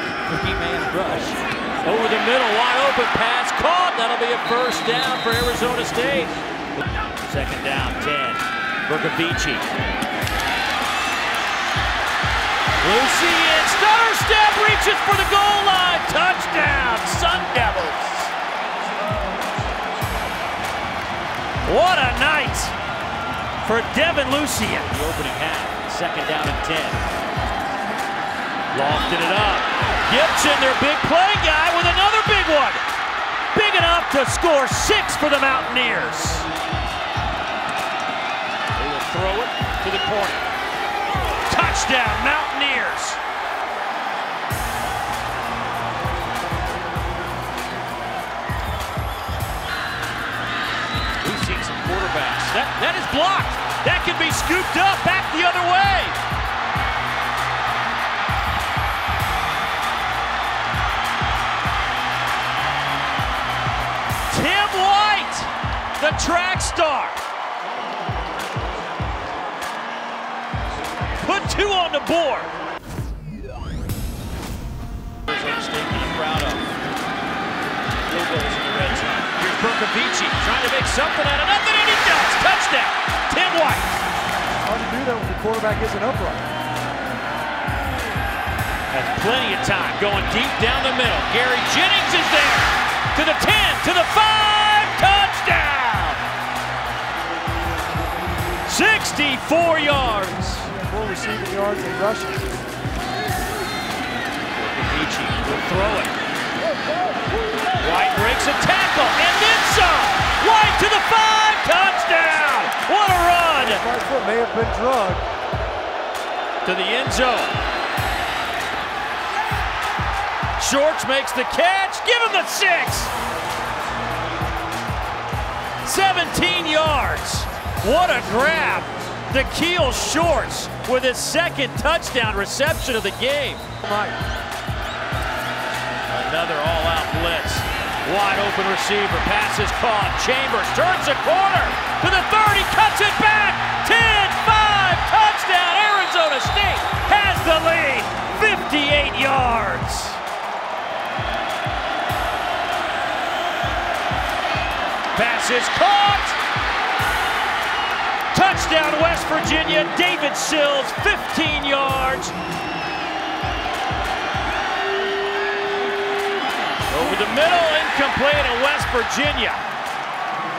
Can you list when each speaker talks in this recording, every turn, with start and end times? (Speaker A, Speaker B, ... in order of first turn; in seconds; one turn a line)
Speaker A: 0.3-6.4
Speaker A: 7.2-9.7
Speaker A: 12.8-18.3
Speaker A: 21.6-22.7
Speaker A: 23.6-27.0
Speaker A: 28.7-32.8
Speaker A: 33.5-36.5
Speaker A: 38.7-40.4
Speaker A: 41.5-43.2
Speaker A: 51.2-56.2
Speaker A: 64.3-67.2
Speaker A: 71.2-72.5
Speaker A: 75.3-76.7
Speaker A: 78.1-83.9
Speaker B: 84.7-86.5
Speaker A: 88.9-96.2
Speaker A: 98.7-100.7
Speaker B: 100.7-102.5
Speaker A: 104.5-106.1
Speaker A: 107.8-113.8
Speaker B: 113.6-115.2
Speaker A: 116.6-117.6
Speaker A: 120.6-123.1
Speaker A: 125.8-133.7
Speaker B: 133.8-134.1
Speaker A: 136.1-150.2
Speaker A: 155.1-156.4
Speaker A: 158.3-162.3
Speaker A: 166.9-169.6